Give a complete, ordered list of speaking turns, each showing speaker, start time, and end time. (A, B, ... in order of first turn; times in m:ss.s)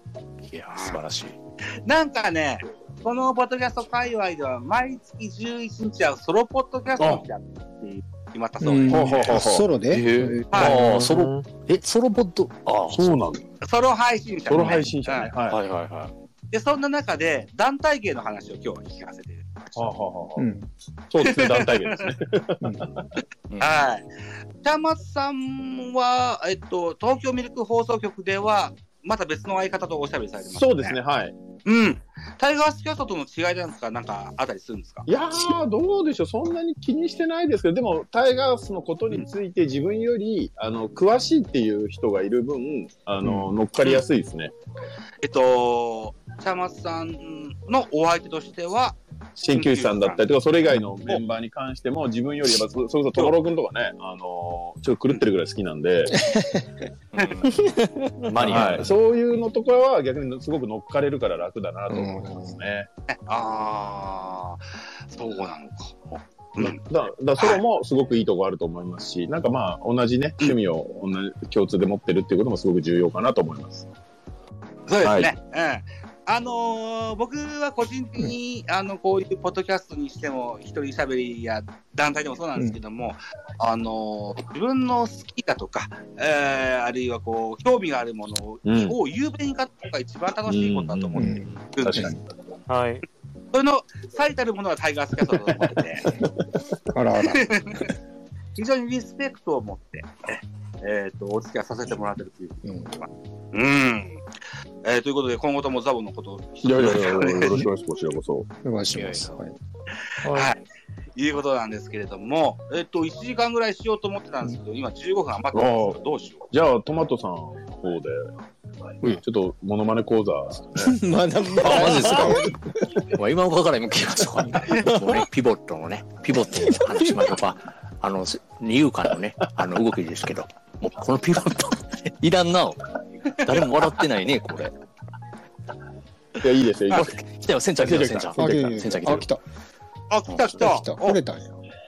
0:00.5-0:01.4 A
0:00.7-0:01.0 B
0:01.8-0:09.3 B
0:07.0-0:07.2 C
0:08.6-0:10.8 D
0:08.9-0:09.7 C
0:09.9-0:13.3 A
0:10.5-0:10.8 B
0:10.6-0:11.4 E
0:12.9-0:13.4 C
0:13.6-0:15.3 B
0:14.5-0:15.6 C
0:15.4-0:16.1 A
0:16.5-0:19.7 B
0:19.8-0:20.5 C
0:20.4-0:20.7 D
0:21.1-0:23.1 C
0:21.2-0:22.1 B
0:22.6-0:22.9 D
0:23.5-0:23.9 A
0:23.6-0:24.0 B
0:24.6-0:31.0 B
0:30.5-0:31.3 C
0:31.6-0:35.1 B
0:35.1-0:44.5 C
0:45.2-0:49.0 B
0:49.4-0:56.2 C
0:49.5-0:50.2 B
0:56.1-0:56.9 D
0:57.1-0:57.8 A
0:57.4-0:58.4 E
0:58.3-0:59.0 A
0:58.4-1:02.9 C
1:01.9-1:02.6 D
1:03.1-1:06.0 B
1:06.6-1:13.9 C
1:14.9-1:32.1 B
1:15.0-1:15.3 C
1:28.6-1:29.0 C
1:30.5-1:32.2 C
1:31.1-1:32.1 D
1:32.7-1:33.0 E
1:33.5-1:36.1 B
1:36.9-1:37.9 D
1:37.3-1:37.9 B
1:38.6-1:44.2 B
1:42.6-1:43.0 D
1:44.8-1:47.6 B
1:46.6-1:48.5 C
1:48.6-1:49.5 D
1:48.9-1:49.3 A
1:50.2-1:50.5 E
1:50.3-1:50.6 B
1:51.2-1:56.4 B
1:55.5-1:56.0 C
1:56.5-1:58.3 C
1:59.0-2:01.0 C
2:00.8-2:02.6 D
2:01.5-2:14.7 A
2:04.7-2:05.0 B
2:16.4-2:17.2 C
2:16.9-2:19.3 A
2:17.8-2:18.7 C
2:18.4-2:19.4 D
2:20.1-2:21.2 B
2:20.3-2:20.6 A
2:20.6-2:21.6 D